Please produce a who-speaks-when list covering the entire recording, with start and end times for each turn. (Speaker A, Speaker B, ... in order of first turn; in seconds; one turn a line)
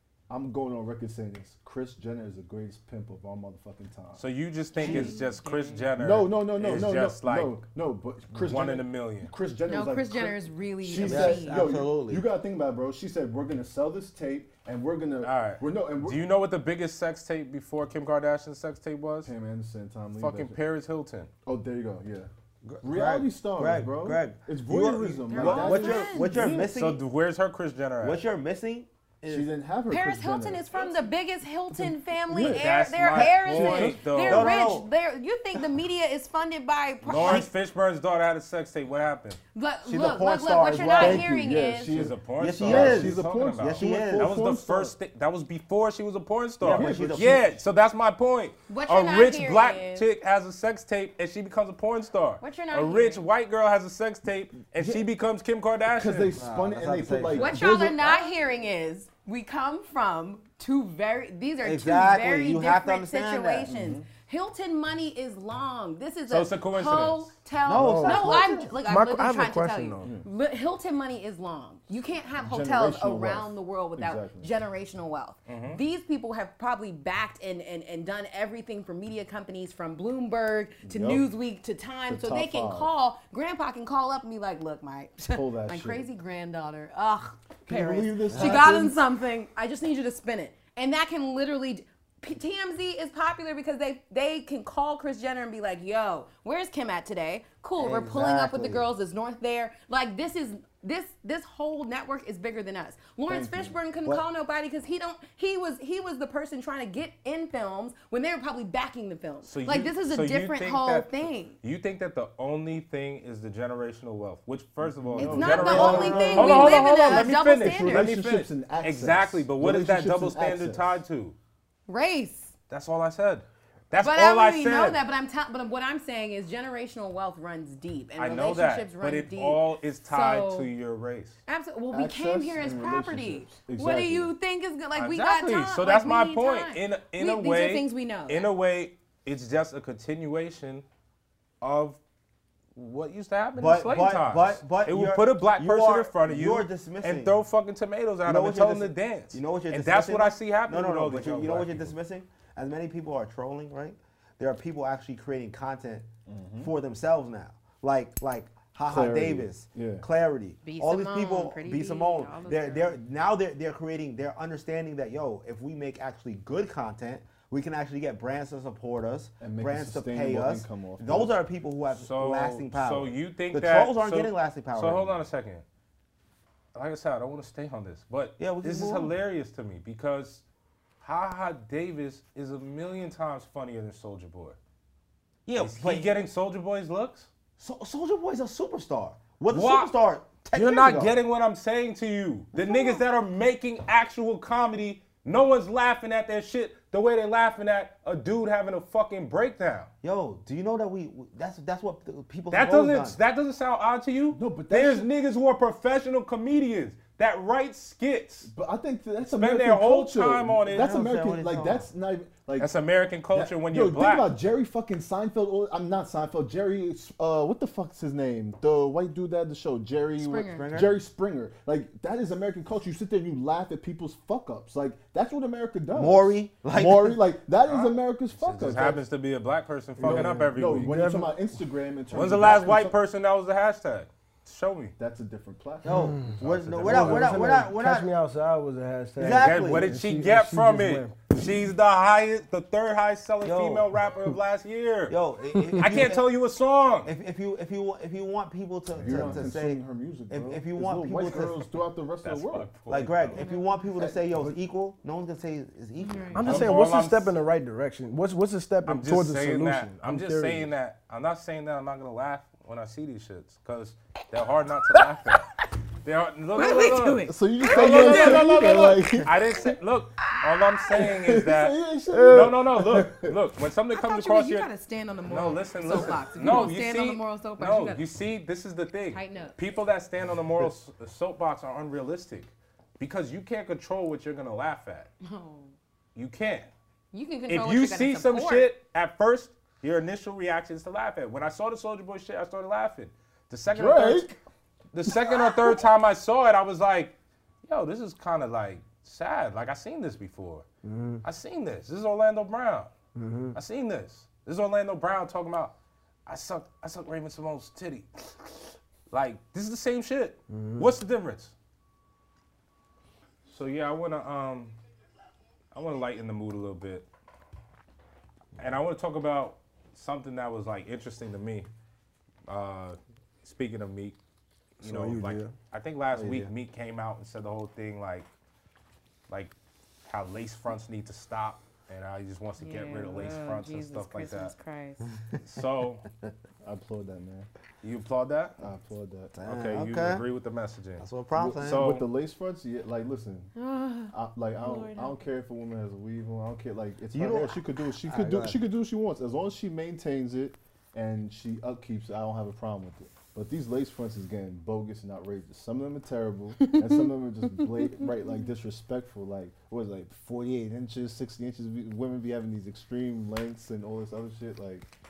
Speaker A: 0.3-4.2
Speaker B: 4.2-7.6
Speaker C: 4.8-5.9
Speaker A: 4.8-5.1
Speaker A: 6.0-16.2
Speaker B: 8.3-9.3
Speaker C: 9.7-11.6
Speaker D: 11.0-12.2
Speaker B: 15.2-19.3
Speaker A: 19.2-20.6
Speaker B: 20.2-21.3
Speaker A: 21.5-22.3
Speaker D: 22.6-27.0
Speaker A: 22.8-26.7
Speaker C: 25.3-26.4
Speaker B: 26.4-28.2
Speaker D: 28.0-29.5
Speaker A: 29.3-30.6
Speaker C: 29.9-37.5
Speaker A: 31.7-32.6
Speaker B: 32.5-34.6
Speaker D: 33.1-34.9
Speaker A: 33.5-33.9
Speaker B: 37.0-39.4
Speaker D: 37.1-37.5
Speaker C: 39.5-42.0
Speaker D: 39.9-41.3
Speaker A: 40.9-45.0
Speaker B: 41.9-56.4
Speaker D: 42.4-44.4
Speaker D: 46.6-47.5
Speaker A: 46.6-47.5
Speaker C: 48.7-50.1
Speaker C: 52.4-53.2
Speaker A: 54.8-55.0
Speaker A: 55.9-58.3
Speaker D: 56.4-57.7
Speaker C: 57.3-111.6
Speaker D: 61.6-63.7
Speaker A: 63.7-64.0
Speaker B: 66.3-67.3
Speaker D: 67.7-68.8
Speaker A: 67.8-68.4
Speaker E: 68.8-70.1
Speaker A: 70.0-70.3
Speaker A: 72.4-74.5
Speaker B: 75.5-75.8
Speaker A: 80.8-81.3
Speaker A: 82.1-82.9
Speaker A: 85.3-86.1
Speaker A: 87.7-89.0
Speaker D: 88.3-88.7
Speaker D: 97.8-98.9
Speaker A: 103.3-103.8
Speaker B: 109.4-121.4
Speaker A: 115.0-121.0
Speaker C: 115.2-118.1
Speaker C: 121.9-122.5
Speaker B: 122.7-125.0
Speaker C: 124.0-130.7
Speaker B: 128.2-131.4
Speaker C: 131.5-138.5
Speaker A: 131.9-134.3
Speaker B: 134.9-140.8
Speaker B: 141.6-142.0
Speaker B: 142.8-151.9
Speaker D: 143.6-147.3
Speaker D: 148.2-156.1
Speaker A: 156.3-156.7
Speaker D: 156.6-175.2
Speaker A: 158.9-160.1
Speaker C: 160.6-163.0
Speaker A: 169.4-171.4
Speaker B: 171.9-175.6
Speaker B: 176.7-180.4
Speaker D: 178.4-179.2
Speaker B: 181.0-184.6
Speaker D: 185.5-186.2
Speaker B: 185.6-187.3
Speaker D: 187.6-191.2
Speaker B: 189.5-189.9
Speaker B: 190.5-199.9
Speaker D: 192.7-193.0
Speaker D: 200.0-203.2
Speaker B: 202.5-208.5
Speaker A: 204.3-205.1
Speaker A: 208.4-212.7
Speaker B: 209.2-210.9
Speaker D: 210.7-211.9
Speaker B: 212.6-214.3
Speaker A: 213.3-229.0
Speaker C: 220.2-220.7
Speaker D: 220.4-220.9
Speaker D: 225.9-227.2
Speaker B: 227.7-231.0
Speaker E: 230.0-231.4
Speaker A: 230.0-233.0
Speaker B: 232.1-234.9
Speaker A: 235.0-237.4
Speaker D: 235.8-238.1
Speaker E: 235.9-241.4
Speaker B: 236.8-237.3
Speaker D: 239.2-239.9
Speaker B: 239.2-245.2
Speaker D: 243.4-243.9
Speaker D: 245.1-246.3
Speaker E: 245.6-246.0
Speaker B: 245.8-247.1
Speaker D: 247.1-251.7
Speaker A: 248.9-252.7
Speaker B: 252.2-253.4
Speaker D: 252.9-256.7
Speaker C: 253.3-253.8
Speaker A: 254.0-254.6
Speaker C: 256.0-256.5
Speaker E: 256.3-260.7
Speaker B: 256.4-257.3
Speaker B: 258.9-274.7
Speaker C: 266.6-268.6
Speaker A: 267.3-269.4
Speaker C: 270.2-270.9
Speaker A: 270.9-273.4
Speaker E: 272.1-272.6
Speaker C: 273.9-278.0
Speaker B: 275.3-285.1
Speaker C: 279.1-279.6
Speaker C: 285.2-285.8
Speaker B: 286.1-286.7
Speaker C: 287.1-288.7
Speaker B: 287.5-294.4
Speaker A: 293.7-294.3
Speaker B: 294.9-297.1
Speaker A: 295.1-295.3
Speaker B: 297.7-300.7
Speaker E: 300.8-301.2
Speaker B: 301.2-302.9
Speaker E: 303.1-303.6
Speaker B: 303.5-305.8
Speaker B: 306.3-311.5
Speaker E: 310.5-310.9
Speaker B: 313.5-314.8
Speaker B: 315.7-317.1
Speaker B: 318.6-321.7
Speaker B: 322.5-324.2
Speaker B: 324.8-328.3
Speaker E: 324.8-325.6
Speaker D: 326.1-326.5
Speaker B: 330.1-334.5
Speaker C: 332.6-335.0
Speaker B: 335.4-336.0
Speaker A: 336.6-337.5
Speaker B: 337.8-338.6
Speaker A: 338.6-339.3
Speaker D: 339.3-340.2
Speaker B: 339.4-341.1
Speaker D: 341.0-341.8
Speaker A: 341.3-343.5
Speaker B: 341.6-342.1
Speaker C: 343.6-345.2
Speaker A: 344.1-364.9
Speaker D: 347.1-348.6